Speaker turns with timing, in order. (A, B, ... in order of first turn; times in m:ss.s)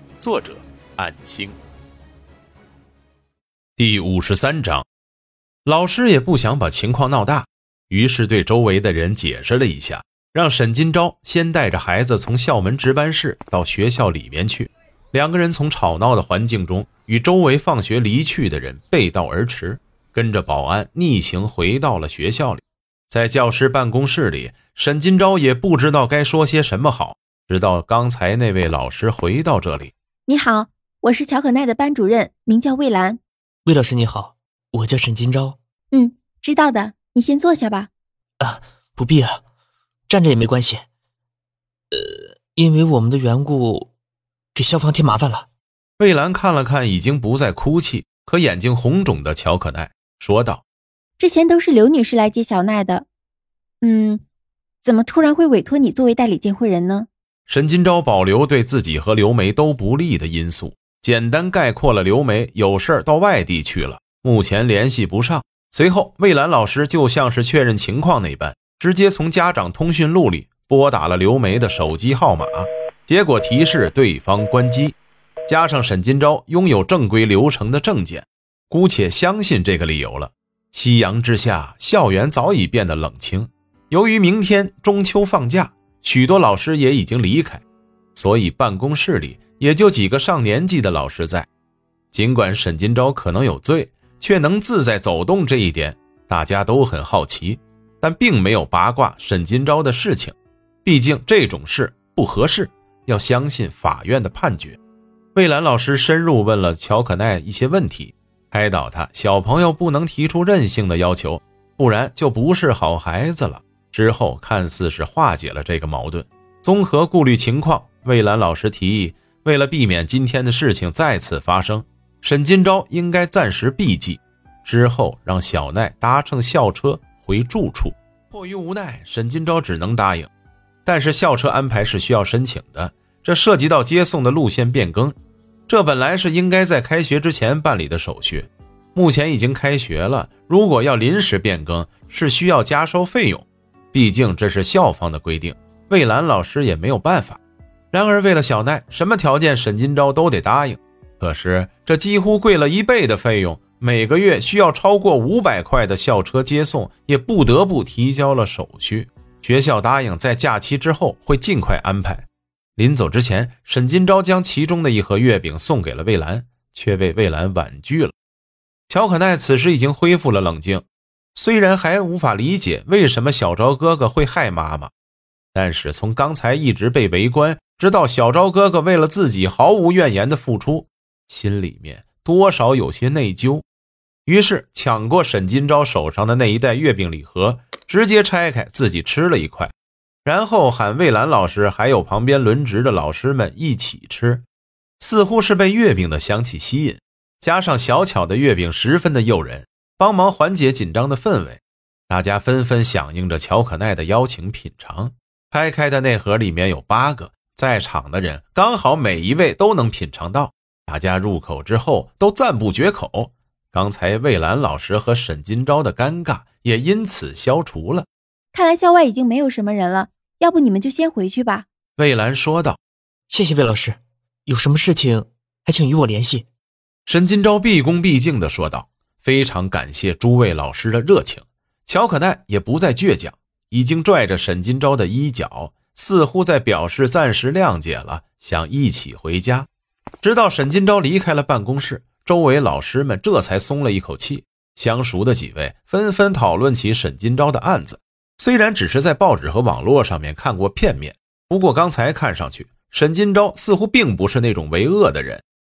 0:00.2-0:01.6 A
0:03.8-0:04.9 A
0:05.6-0:29.9 A
0:30.3-0:33.2 B
0:33.6-0:35.6 C
0:35.9-0:37.9 B
0:38.4-0:39.4 C
0:40.1-0:40.8 C
0:41.9-0:43.9 C
0:44.5-0:45.5 C
0:46.0-0:50.6 A
0:51.2-0:53.0 B
0:53.8-0:54.2 B
0:54.8-0:57.1 B
0:57.5-1:31.5 A
1:32.1-1:44.8 A
1:45.3-2:10.3 A
2:10.8-2:15.1 A
2:15.7-2:27.4 A
2:27.9-2:48.1 A
2:48.9-2:54.9 A
2:55.5-3:03.6 A
3:04.2-3:09.7 A
3:10.2-3:14.4 A
3:15.0-3:38.1 A
3:38.5-3:41.6 B
3:42.0-3:42.8 A
3:43.3-3:46.5 C
3:47.1-3:59.7 A
4:00.2-4:15.4 A